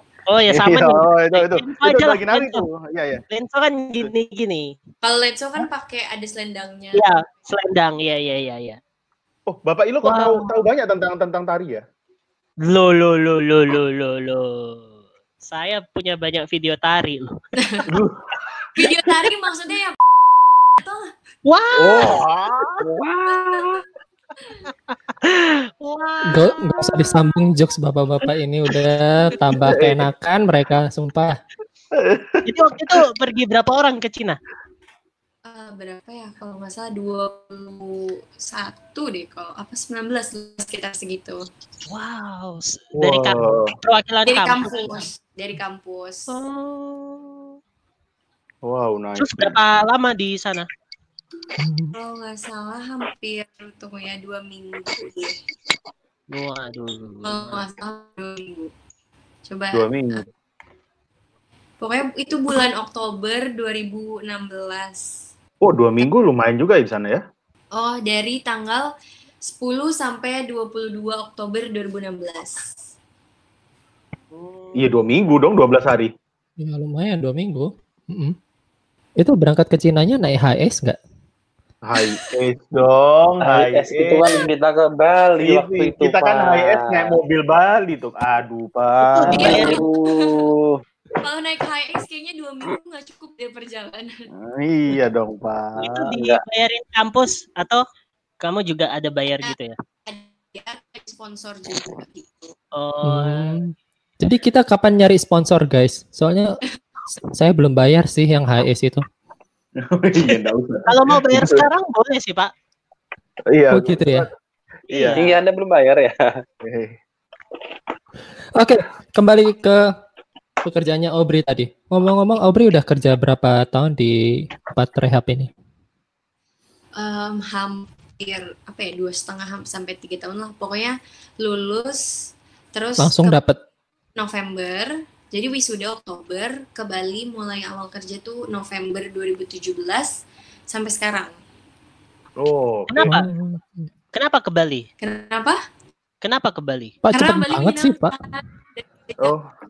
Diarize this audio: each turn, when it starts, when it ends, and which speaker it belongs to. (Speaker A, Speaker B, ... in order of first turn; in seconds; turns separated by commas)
Speaker A: 0.3-2.6, Speaker B: 0.5-3.2, Speaker A: 3.3-4.7, Speaker C: 5.0-7.3, Speaker A: 6.9-8.8, Speaker B: 9.5-11.8, Speaker A: 10.0-10.5, Speaker A: 12.6-17.3, Speaker B: 17.9-18.2, Speaker C: 18.8-20.0, Speaker C: 20.8-21.1, Speaker A: 21.4-22.2, Speaker B: 21.7-22.8, Speaker D: 22.8-23.7, Speaker A: 24.9-27.1, Speaker E: 26.3-31.4, Speaker B: 29.6-30.1, Speaker B: 31.9-33.0, Speaker A: 32.5-34.4, Speaker C: 35.5-41.4, Speaker A: 41.8-45.0, Speaker B: 42.9-43.7, Speaker C: 44.2-46.4, Speaker A: 46.3-47.6, Speaker B: 48.6-49.6, Speaker A: 49.2-50.7, Speaker E: 51.6-51.9, Speaker C: 51.9-55.4, Speaker A: 56.3-57.6, Speaker C: 57.2-58.7, Speaker C: 59.5-60.2, Speaker B: 59.7-60.2, Speaker C: 61.8-65.0, Speaker B: 65.6-67.2, Speaker C: 67.7-68.8, Speaker C: 69.4-72.7, Speaker A: 74.3-75.0, Speaker B: 74.8-76.1, Speaker E: 76.6-78.3, Speaker E: 79.2-81.0, Speaker B: 81.8-84.4, Speaker D: 83.4-87.2, Speaker B: 85.4-89.6, Speaker A: 89.1-89.8, Speaker D: 89.2-90.8, Speaker C: 89.3-90.5, Speaker C: 91.2-94.3, Speaker B: 94.3-96.1, Speaker A: 95.8-97.8, Speaker D: 95.9-96.4, Speaker A: 98.4-99.7, Speaker C: 100.1-102.5, Speaker A: 102.7-103.5, Speaker E: 103.0-106.6, Speaker E: 107.3-109.0, Speaker B: 109.8-111.7, Speaker A: 110.3-112.5, Speaker B: 113.5-114.3, Speaker E: 113.7-114.3, Speaker A: 114.9-115.2, Speaker B: 114.9-115.2, Speaker D: 115.2-116.4, Speaker B: 116.6-117.0, Speaker E: 118.5-119.9, Speaker E: 120.6-124.2, Speaker E: 124.7-125.5, Speaker C: 127.0-132.1, Speaker C: 132.7-133.4, Speaker E: 133.0-133.6, Speaker C: 134.2-140.2, Speaker C: 140.7-141.3, Speaker B: 142.4-143.2, Speaker A: 142.9-143.3, Speaker E: 143.1-143.9, Speaker A: 144.1-144.8, Speaker C: 145.0-145.6, Speaker A: 146.2-146.9, Speaker E: 147.0-148.1, Speaker C: 147.1-149.3, Speaker B: 149.2-149.5